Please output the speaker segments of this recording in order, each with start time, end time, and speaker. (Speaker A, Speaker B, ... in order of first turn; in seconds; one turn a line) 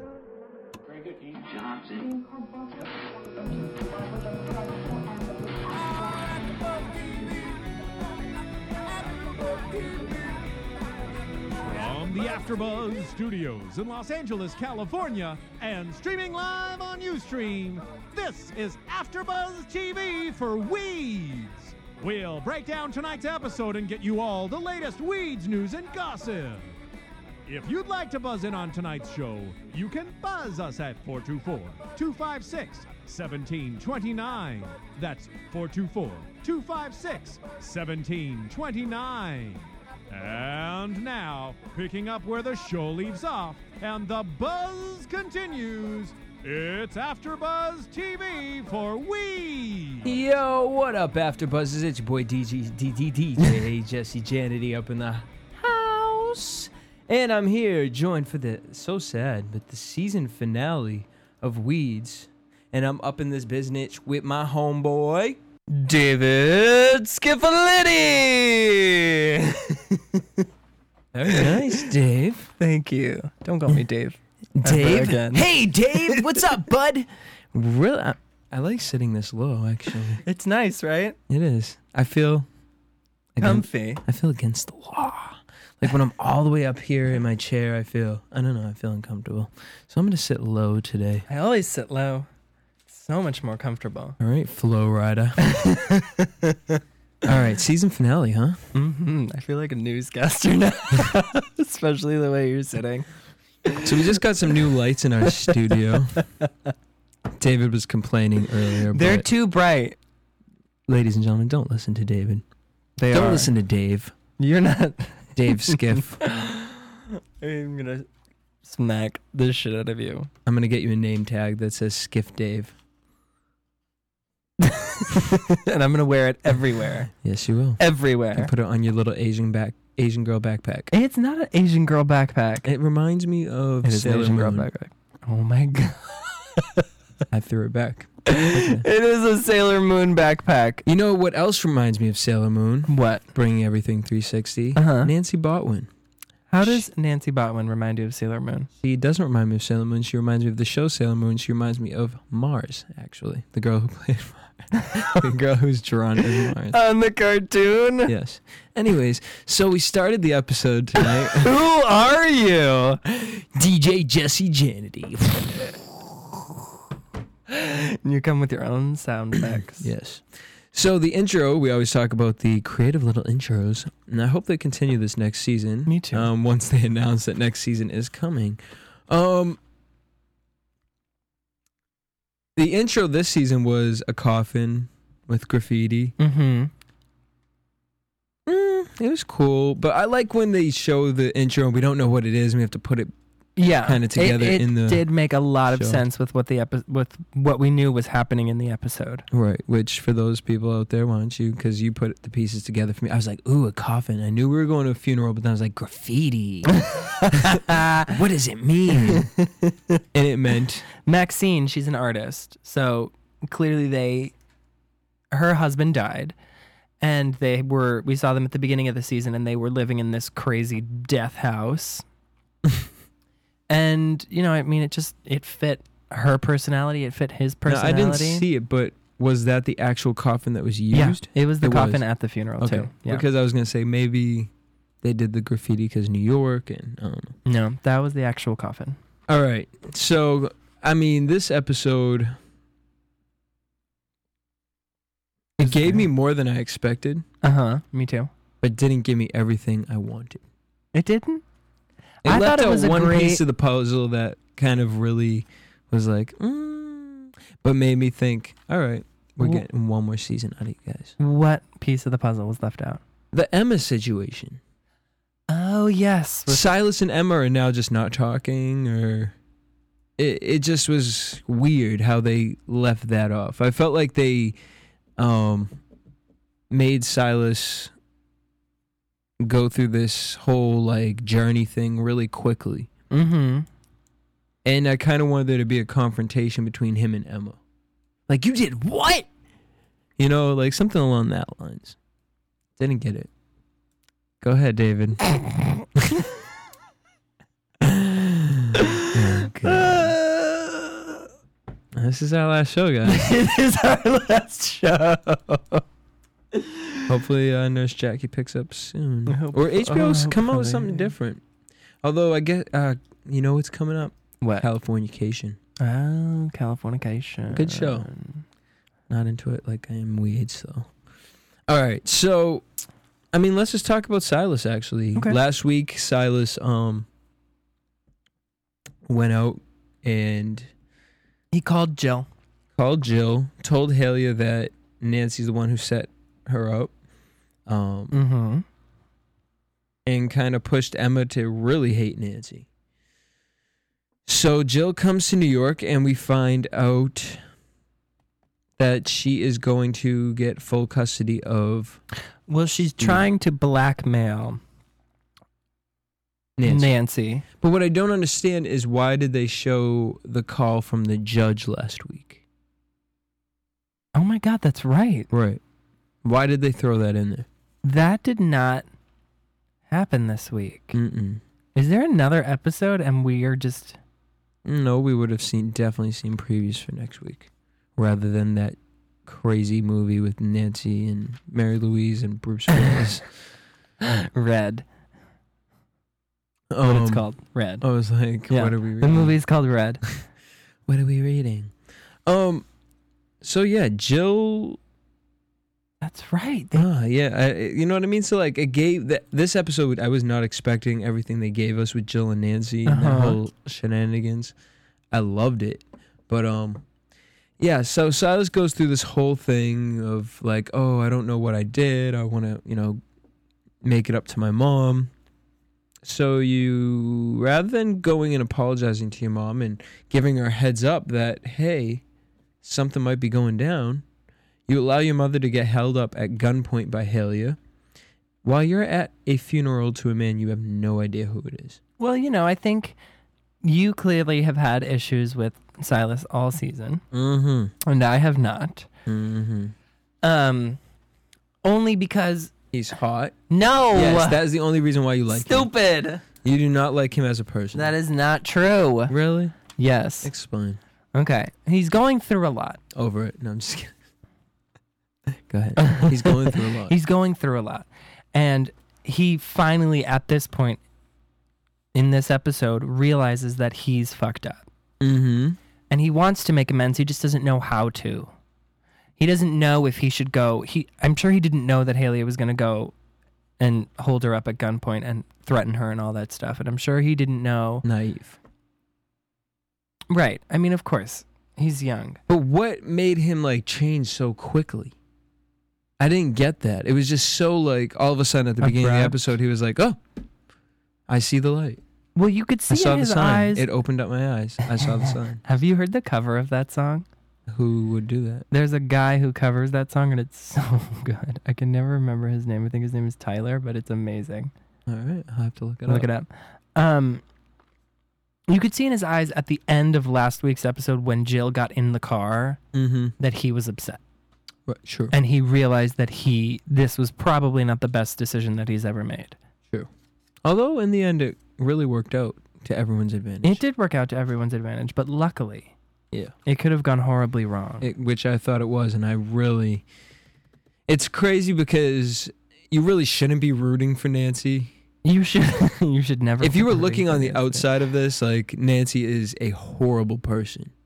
Speaker A: 11.7-26.7
Speaker A: 27.5-50.1
Speaker B: 50.0-65.4
Speaker C: 65.7-70.4
Speaker B: 71.1-72.5
Speaker C: 71.3-71.8
Speaker C: 72.6-76.4
Speaker B: 74.6-80.2
Speaker C: 80.2-81.2
Speaker B: 81.3-82.5
Speaker B: 83.4-91.3
Speaker C: 83.4-84.0
Speaker C: 91.3-92.3
Speaker C: 92.9-94.2
Speaker B: 94.2-95.5
Speaker C: 95.4-96.8
Speaker B: 97.2-98.6
Speaker C: 98.7-103.1
Speaker C: 103.7-104.2
Speaker B: 103.8-106.2
Speaker C: 106.2-106.5
Speaker B: 107.4-109.3
Speaker C: 108.9-110.0
Speaker B: 110.9-112.4
Speaker C: 113.0-113.5
Speaker B: 113.1-114.1
Speaker C: 114.4-118.1
Speaker B: 115.4-116.2
Speaker C: 118.6-120.3
Speaker B: 120.5-122.7
Speaker C: 124.6-127.1
Speaker B: 127.2-130.9
Speaker C: 127.8-128.5
Speaker C: 130.9-132.7
Speaker B: 132.7-134.7
Speaker C: 133.8-136.9
Speaker B: 137.3-138.8
Speaker C: 138.3-140.8
Speaker B: 140.8-145.9
Speaker C: 142.9-143.2
Speaker C: 144.8-145.1
Speaker C: 146.5-148.7
Speaker B: 148.8-156.8
Speaker C: 156.7-158.1
Speaker B: 158.1-161.5
Speaker C: 161.0-163.0
Speaker B: 163.1-165.8
Speaker C: 167.5-169.9
Speaker B: 169.8-179.6
Speaker C: 175.9-176.3
Speaker B: 182.6-186.2
Speaker C: 186.2-186.7
Speaker B: 188.5-193.1
Speaker C: 193.6-199.2
Speaker B: 193.8-195.1
Speaker B: 195.7-196.0
Speaker B: 199.3-209.3
Speaker C: 206.8-208.1
Speaker C: 209.0-210.0
Speaker B: 210.1-210.8
Speaker C: 211.0-214.3
Speaker C: 215.3-216.3
Speaker C: 217.0-222.0
Speaker C: 223.7-228.4
Speaker B: 227.7-232.1
Speaker C: 230.9-233.2
Speaker B: 232.6-234.5
Speaker B: 235.0-237.4
Speaker C: 237.4-239.0
Speaker B: 239.3-242.4
Speaker B: 245.6-247.2
Speaker C: 245.6-246.1
Speaker C: 247.4-248.3
Speaker B: 248.6-250.4
Speaker C: 250.9-251.4
Speaker C: 252.2-253.4
Speaker B: 252.2-261.2
Speaker C: 261.2-263.0
Speaker B: 263.3-264.6
Speaker C: 265.5-266.7
Speaker B: 266.5-269.4
Speaker B: 270.2-274.6
Speaker B: 275.2-275.8
Speaker B: 276.7-277.9
Speaker B: 279.4-282.9
Speaker C: 283.1-283.7
Speaker B: 284.6-287.6
Speaker B: 288.3-289.3
Speaker B: 290.2-292.0
Speaker B: 292.8-293.3
Speaker B: 294.4-295.4
Speaker B: 295.9-296.3
Speaker B: 297.8-300.2
Speaker C: 298.8-301.0
Speaker B: 301.9-303.4
Speaker C: 303.1-305.8
Speaker B: 307.1-311.4
Speaker C: 309.3-311.1
Speaker B: 312.0-315.6
Speaker C: 315.8-318.4
Speaker B: 317.5-318.1
Speaker B: 319.1-320.9
Speaker B: 321.7-322.6
Speaker B: 323.3-327.1
Speaker B: 329.1-330.7
Speaker C: 331.5-332.3
Speaker B: 332.8-336.9
Speaker B: 337.7-338.2
Speaker C: 338.1-338.6
Speaker B: 340.1-342.7
Speaker B: 344.3-347.4
Speaker B: 348.8-352.0
Speaker C: 352.5-354.6
Speaker B: 353.0-353.2
Speaker B: 356.6-356.9
Speaker C: 356.7-357.4
Speaker B: 357.6-362.4
Speaker C: 364.1-365.3
Speaker B: 365.3-365.6
Speaker B: 366.2-367.5
Speaker C: 367.8-368.9
Speaker C: 369.9-371.0
Speaker B: 370.9-371.4
Speaker C: 371.8-374.0
Speaker B: 374.6-383.3
Speaker C: 384.1-384.9
Speaker B: 386.7-387.3
Speaker C: 386.8-387.9
Speaker B: 387.8-389.4
Speaker C: 388.5-390.0
Speaker B: 390.9-391.7
Speaker B: 392.3-392.7
Speaker B: 393.4-394.8
Speaker C: 396.0-396.9
Speaker B: 396.7-404.5
Speaker C: 402.9-403.4
Speaker B: 405.1-406.9
Speaker B: 407.6-413.0
Speaker B: 413.8-415.1
Speaker B: 416.0-422.0
Speaker B: 422.6-424.0
Speaker B: 424.7-427.6
Speaker B: 428.4-431.8
Speaker C: 432.0-433.0
Speaker C: 433.6-437.0
Speaker B: 437.1-437.7
Speaker C: 437.8-438.9
Speaker B: 439.1-439.8
Speaker C: 440.2-440.8
Speaker C: 441.6-442.5
Speaker B: 442.7-443.4
Speaker C: 443.5-444.4
Speaker B: 443.9-445.7
Speaker C: 445.3-446.2
Speaker B: 446.4-447.9
Speaker C: 447.7-449.1
Speaker B: 449.1-449.6
Speaker C: 449.8-450.3
Speaker B: 450.2-450.8
Speaker C: 451.1-452.8
Speaker B: 452.9-453.9
Speaker B: 455.5-456.9
Speaker C: 455.8-460.8
Speaker C: 461.9-464.7
Speaker B: 465.0-465.6
Speaker C: 465.9-468.3
Speaker C: 469.2-472.9
Speaker C: 473.6-477.9
Speaker B: 477.8-478.4
Speaker C: 480.1-482.2
Speaker B: 482.3-484.9
Speaker B: 486.0-490.0
Speaker C: 488.6-489.2
Speaker B: 491.1-491.8
Speaker C: 492.1-493.7
Speaker B: 492.7-495.4
Speaker C: 494.8-497.1
Speaker B: 497.5-498.5
Speaker C: 498.5-504.5
Speaker B: 504.9-506.1
Speaker C: 505.9-507.2
Speaker C: 508.5-512.6
Speaker B: 512.7-513.1
Speaker C: 513.2-514.0
Speaker B: 514.7-515.1
Speaker C: 515.1-519.4
Speaker B: 520.5-523.6
Speaker C: 523.4-525.7
Speaker C: 526.5-527.9
Speaker B: 527.8-529.9
Speaker B: 530.9-534.7
Speaker C: 535.0-537.6
Speaker B: 536.4-540.7